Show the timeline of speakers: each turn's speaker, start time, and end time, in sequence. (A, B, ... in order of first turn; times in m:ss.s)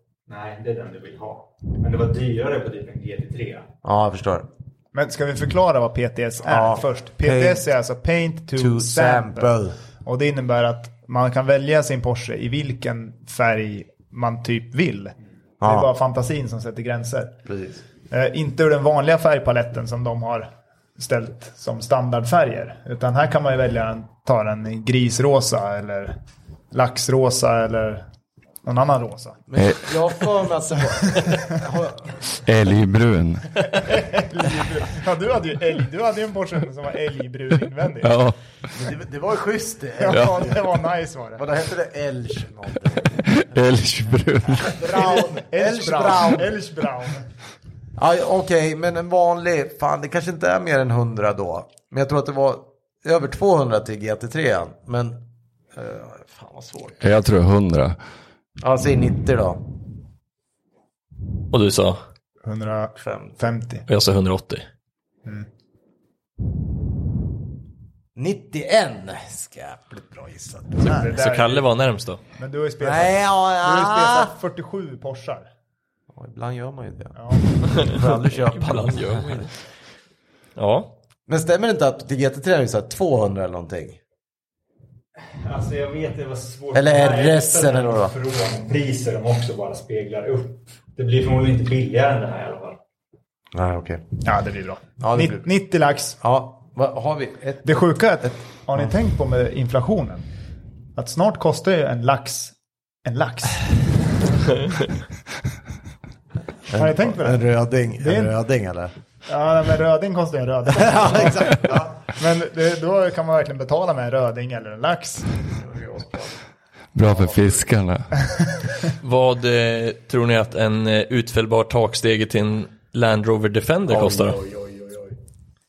0:00.3-0:03.7 A
0:03.8-0:04.5 B
0:04.9-0:17.3 C
0:06.4-0:07.6 B
0:08.6-0:09.8 B
0:15.6-0:15.9 B
0:17.5-0:17.8 B
0:18.1-0:26.1 C
0:26.7-0:28.0 C
0:28.6-0:29.4 C
0:29.5-0:32.2 B
0:32.4-0:33.6 D
0:33.6-0:38.2 C
0:38.0-0:38.4 D
0:38.7-0:40.7 B
0:40.0-0:41.4 C
0:41.4-0:43.3 B
0:43.2-0:44.8 D
0:44.5-0:46.5 B
0:44.8-0:47.2 C
0:48.0-0:55.2 B
0:55.7-0:57.0 B
0:57.0-0:58.0 D
0:58.6-0:59.6 B
1:01.5-1:02.0 E
1:02.4-1:03.8 C
1:03.0-1:03.4 B
1:03.9-1:04.6 E
1:08.1-1:11.0 B
1:10.8-1:12.2 E
1:10.8-1:11.7 C
1:12.4-1:15.5 C
1:12.8-1:14.3 B
1:16.1-1:19.5 B
1:17.1-1:17.5 C
1:17.7-1:19.5 E
1:20.6-1:20.9 E
1:21.3-1:24.0 B
1:25.4-1:32.8 A
1:26.7-1:28.1 B
1:33.5-1:34.0 B
1:34.2-1:36.2 C
1:35.0-1:35.5 B
1:36.2-1:38.9 B
1:37.6-1:40.2 C
1:41.0-1:43.6 C
1:46.7-1:48.9 B
1:46.7-1:47.4 C
1:48.0-1:48.4 C
1:49.3-1:55.3 C
1:50.7-1:52.0 B
1:55.6-1:56.4 B
1:56.9-1:58.1 D
1:57.0-1:57.7 B
1:59.0-2:04.4 E
2:03.9-2:05.2 B